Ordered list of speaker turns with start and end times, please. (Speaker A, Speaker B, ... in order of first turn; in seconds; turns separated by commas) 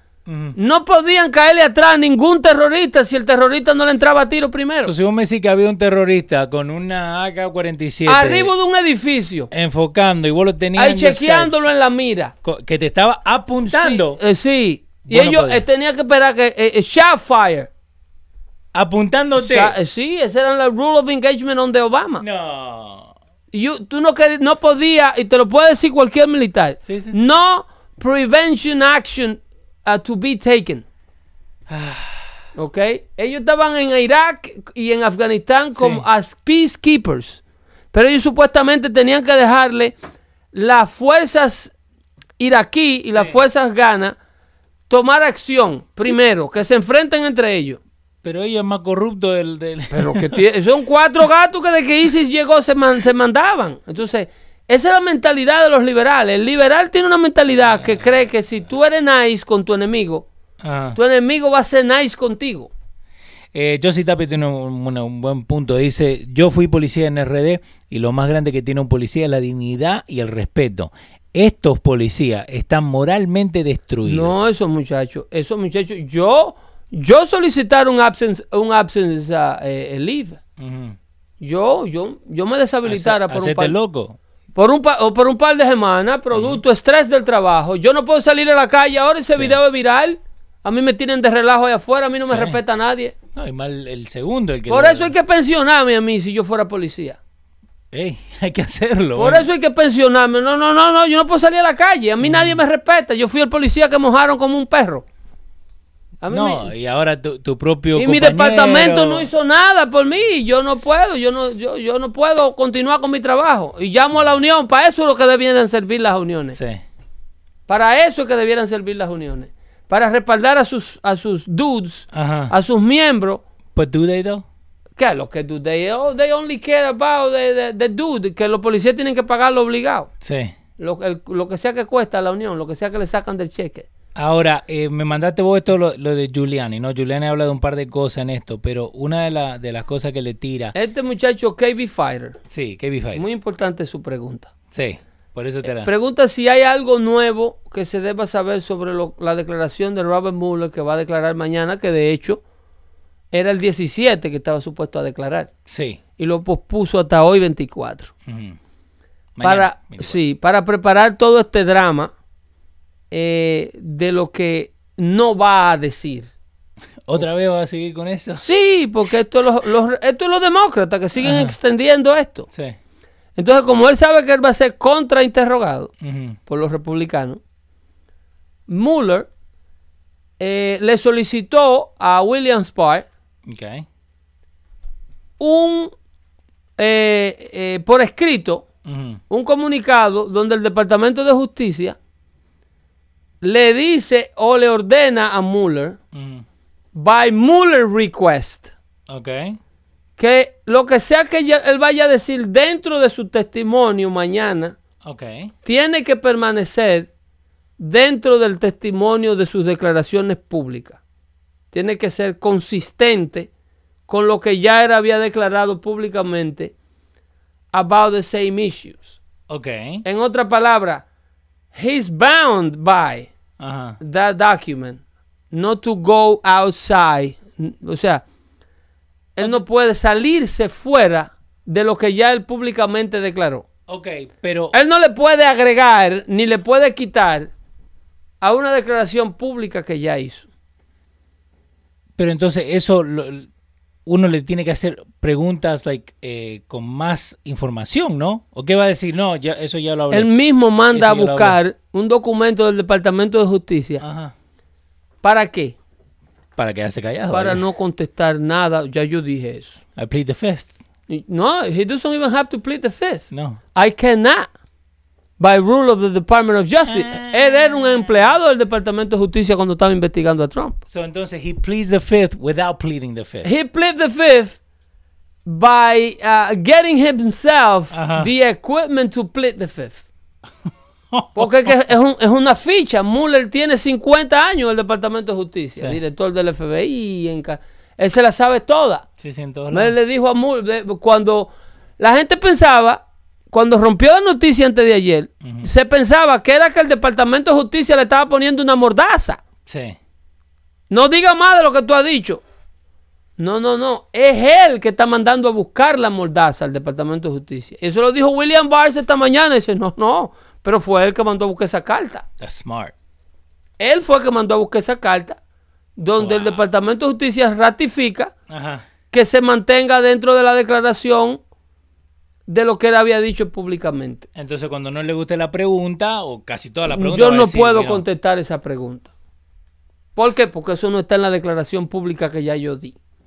Speaker A: 0.2-0.6, Speaker B: 0.5-4.9, Speaker A: 4.8-8.5, Speaker B: 8.1-9.5, Speaker A: 9.5-11.6, Speaker B: 10.8-12.3, Speaker A: 12.4-14.2, Speaker B: 13.7-17.7, Speaker A: 15.0-15.6, Speaker A: 18.7-19.7, Speaker B: 19.4-22.2, Speaker A: 22.2-23.1, Speaker B: 23.5-30.8, Speaker A: 26.8-27.1, Speaker A: 31.7-32.3, Speaker B: 32.5-37.4, Speaker A: 35.7-36.0, Speaker B: 37.9-39.9, Speaker B: 40.5-41.7, Speaker B: 42.4-44.1, Speaker A: 43.1-43.4, Speaker B: 44.9-47.8, Speaker A: 48.2-50.4, Speaker B: 49.9-60.3, Speaker A: 57.7-58.0, Speaker A: 60.6-61.0, Speaker B: 60.9-62.7, Speaker A: 63.5-74.3, Speaker B: 74.0-80.4, Speaker A: 80.6-81.0, Speaker B: 81.4-83.7, Speaker A: 82.8-84.2, Speaker B: 84.5-93.1, Speaker A: 86.3-86.6, Speaker A: 89.3-89.6, Speaker A: 92.2-92.6, Speaker A: 93.3-95.1, Speaker B: 94.7-97.2, Speaker A: 97.9-99.5, Speaker B: 99.2-105.0, Speaker A: 102.2-102.6, Speaker B: 106.2-106.7, Speaker A: 106.3-109.3, Speaker B: 108.0-116.6, Speaker A: 116.5-116.8, Speaker B: 117.7-123.4, Speaker A: 122.1-122.5, Speaker A: 123.7-124.4, Speaker B: 125.0-130.1, Speaker A: 130.2-130.5, Speaker B: 130.8-133.9, Speaker A: 134.1-140.7, Speaker B: 140.7-142.4, Speaker A: 142.5-143.2, Speaker B: 143.1-144.5, Speaker A: 144.7-145.9, Speaker B: 145.6-152.4, Speaker B: 153.3-155.5, Speaker A: 155.7-156.0, Speaker B: 156.2-158.1, Speaker A: 158.2-158.6, Speaker A: 159.3-160.2, Speaker B: 159.4-162.1, Speaker B: 163.1-166.3, Speaker A: 167.0-168.4, Speaker B: 168.4-172.5, Speaker A: 171.2-171.5, Speaker A: 172.5-172.8, Speaker B: 173.3-175.9, Speaker A: 176.0-176.4, Speaker B: 176.4-177.4, Speaker B: 178.7-179.3, Speaker B: 180.4-183.1, Speaker A: 183.4-183.8, Speaker B: 185.4-185.9, Speaker B: 186.8-188.6, Speaker A: 188.8-189.2, Speaker B: 189.3-192.0, Speaker B: 193.4-196.0, Speaker A: 196.1-196.4, Speaker B: 196.9-198.7, Speaker A: 199.1-199.6, Speaker B: 200.2-204.8, Speaker A: 205.0-205.5, Speaker B: 205.6-207.1, Speaker B: 207.8-211.0, Speaker B: 211.7-213.5, Speaker B: 214.1-216.7, Speaker B: 217.7-219.2, Speaker A: 219.5-220.0, Speaker B: 220.0-221.0, Speaker B: 221.7-223.3, Speaker A: 223.6-224.0, Speaker B: 224.0-225.0, Speaker B: 225.5-228.2, Speaker B: 229.3-233.7, Speaker A: 233.9-234.7, Speaker B: 234.7-237.5, Speaker B: 238.4-240.5, Speaker A: 242.2-243.5, Speaker A: 244.1-250.3, Speaker B: 250.1-254.0, Speaker A: 250.9-251.6, Speaker A: 254.0-254.3, Speaker B: 255.2-255.7, Speaker A: 256.6-257.6, Speaker B: 257.3-259.8, Speaker A: 259.9-260.7, Speaker B: 261.1-264.5, Speaker A: 263.3-263.6, Speaker B: 265.4-270.8, Speaker A: 266.8-268.3, Speaker A: 270.9-273.5, Speaker B: 273.4-274.6, Speaker B: 275.4-280.0, Speaker A: 277.9-278.3, Speaker A: 281.1-281.7, Speaker B: 281.3-289.1, Speaker A: 289.2-289.9, Speaker B: 289.7-299.4, Speaker A: 295.4-295.7, Speaker A: 299.6-300.0, Speaker B: 300.9-302.4, Speaker B: 303.4-312.2, Speaker A: 312.4-312.9, Speaker B: 313.8-315.4, Speaker B: 316.0-318.3, Speaker A: 316.2-316.6, Speaker A: 318.5-318.8, Speaker B: 319.1-321.4, Speaker B: 322.5-324.2, Speaker A: 324.3-328.0, Speaker B: 326.9-329.1, Speaker B: 330.1-332.9